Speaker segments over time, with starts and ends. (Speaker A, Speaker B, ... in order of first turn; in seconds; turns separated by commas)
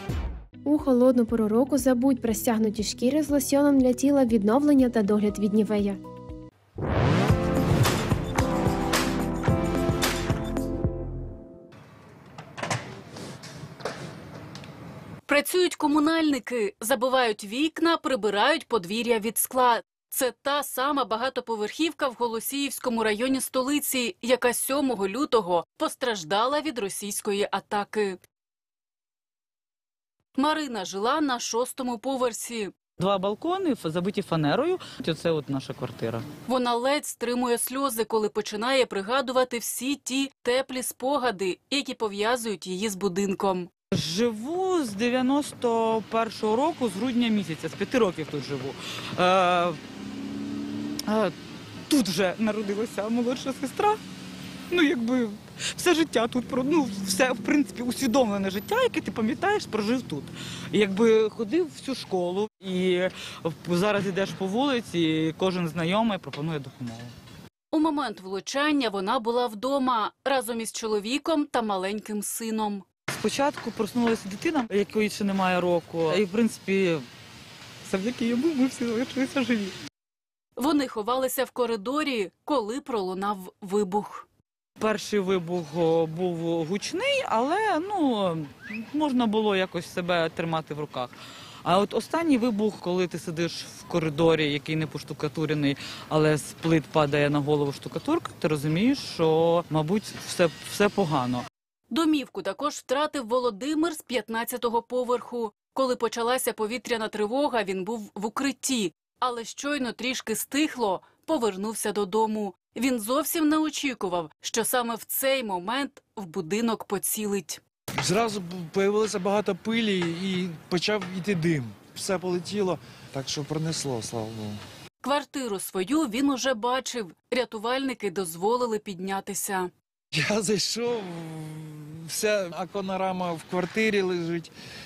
Speaker A: 0.6-6.0, Speaker B: 15.3-28.2, Speaker B: 30.4-32.7, Speaker C: 33.0-36.2, Speaker B: 36.5-43.7, Speaker C: 43.9-49.8, Speaker C: 51.0-51.3, Speaker C: 51.9-54.0, Speaker C: 54.7-67.1, Speaker B: 67.7-72.8, Speaker C: 73.1-77.0, Speaker C: 77.8-79.7, Speaker B: 80.6-84.3, Speaker C: 84.8-101.5, Speaker B: 101.9-117.6, Speaker D: 118.0-124.6, Speaker B: 125.0-129.7, Speaker D: 130.1-134.5